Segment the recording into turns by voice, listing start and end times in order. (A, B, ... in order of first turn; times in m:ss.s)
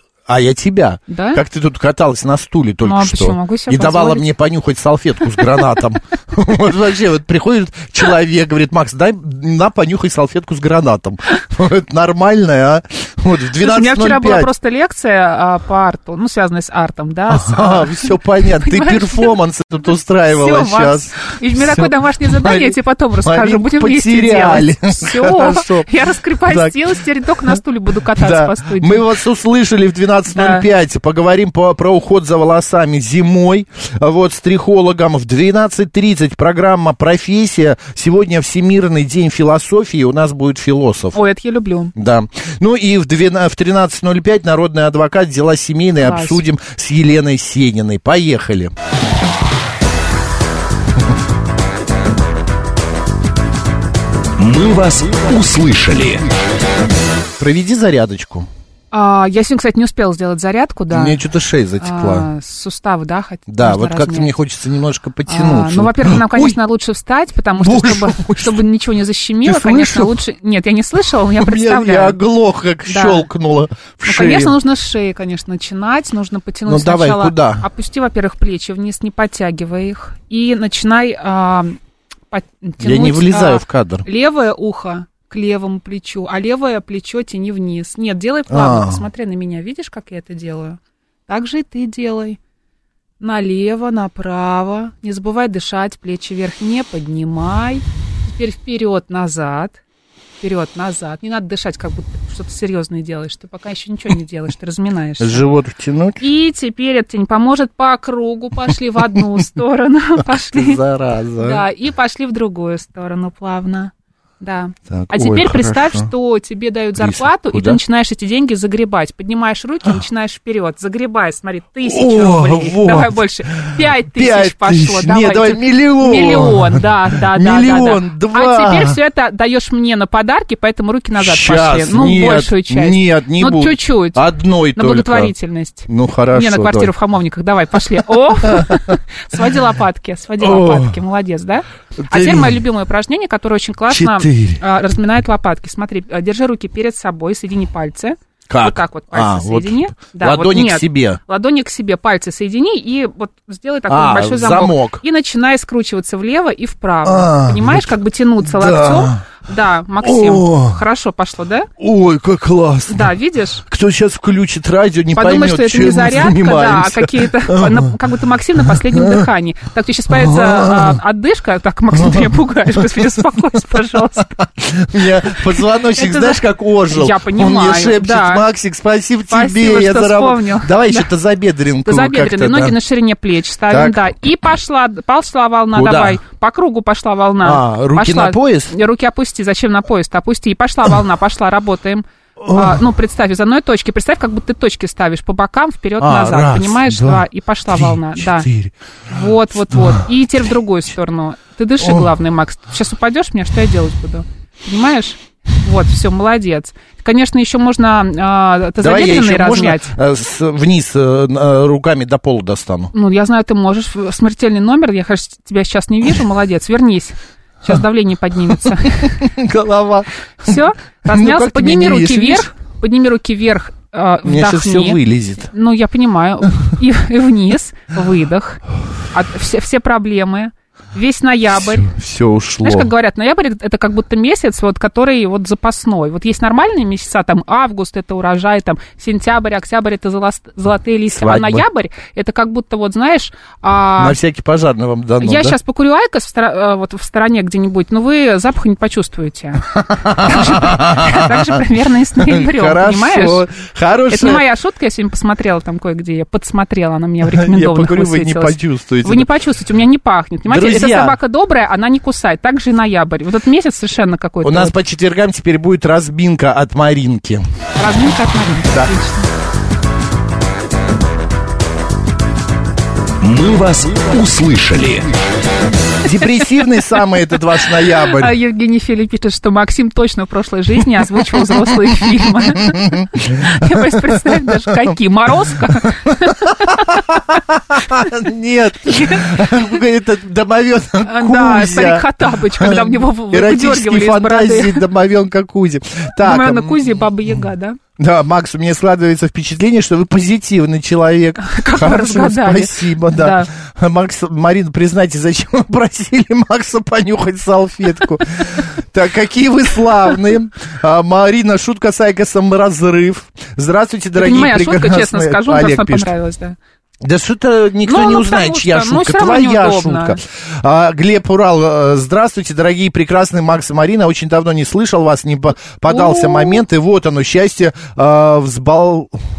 0:00.3-0:14.5 A
0:01.1-0:01.4 B
0:02.8-0:04.3 B
0:13.6-0:19.3 B
0:17.3-0:25.9 A
0:20.3-0:29.0 B
0:26.4-0:27.6 A
0:28.1-0:41.2 A
0:30.3-0:30.6 B
0:41.1-0:41.9 B
0:42.0-0:48.7 A
0:46.0-0:46.4 B
0:54.4-0:56.3 C
0:57.4-0:58.5 A
0:58.9-1:01.2 B
1:00.9-1:02.3 A
1:01.8-1:04.3 B
1:03.5-1:06.6 A
1:05.3-1:12.2 B
1:07.6-1:08.6 A
1:09.4-1:10.2 A
1:11.4-1:14.6 A
1:12.8-1:13.3 B
1:14.0-1:21.8 B
1:16.7-1:17.6 A
1:22.3-1:32.4 B
1:22.8-1:24.0 A
1:28.5-1:29.0 A
1:33.2-1:39.8 B
1:40.4-1:45.4 B
1:45.2-1:46.2 A
1:46.2-1:50.8 B
1:48.7-1:49.4 A
1:50.3-1:51.6 A
1:51.4-2:14.2 B
1:54.9-1:56.1 A
1:57.0-1:57.8 A
2:01.8-2:09.0 A
2:11.2-2:15.3 A
2:14.8-2:41.7 B
2:15.9-2:16.9 A
2:18.4-2:19.0 A
2:20.4-2:20.9 A
2:22.0-2:22.6 A
2:23.9-2:24.6 A
2:28.5-2:31.2 A
2:33.9-2:35.0 A
2:37.0-2:39.2 A
2:40.0-2:40.8 A
2:41.8-2:43.1 A
2:42.9-2:43.6 B
2:43.7-2:47.9 A
2:45.1-2:54.4 B
2:48.6-2:49.3 A
2:50.1-2:51.0 A
2:51.9-3:02.8 A
2:55.3-2:58.4 B
2:59.3-3:01.1 B
3:01.8-3:18.5 B
3:03.7-3:04.1 A
3:05.7-3:06.2 A
3:07.4-3:08.7 A
3:12.4-3:12.8 A
3:16.0-3:19.1 A
3:19.1-3:29.9 B
3:19.7-3:20.1 A
3:21.8-3:22.1 A
3:28.8-3:32.9 A
3:32.9-3:39.3 B
3:38.8-3:42.5 A
3:40.4-3:51.9 B
3:44.2-3:45.5 A
3:51.7-3:52.9 A
3:52.6-4:04.2 B
4:01.2-4:01.6 A
4:04.0-4:05.6 A
4:05.2-4:13.4 B
4:09.8-4:11.6 A
4:12.2-4:14.5 A
4:14.1-4:24.8 B
4:17.2-4:19.3 A
4:20.5-4:21.2 A
4:24.4-4:27.4 A
4:27.8-4:29.3 B
4:33.2-4:35.1 C
4:36.0-4:38.3 A
4:38.0-4:47.2 B
4:41.4-4:41.7 A
4:42.5-4:44.8 A
4:46.1-4:57.0 A
4:48.9-4:49.4 B
4:51.0-4:54.8 B
4:56.2-4:57.8 B
4:58.0-5:16.1 A
5:01.4-5:03.5 B
5:14.2-5:16.6 B
5:17.0-5:29.2 A
5:17.9-5:20.2 B
5:25.9-5:26.6 B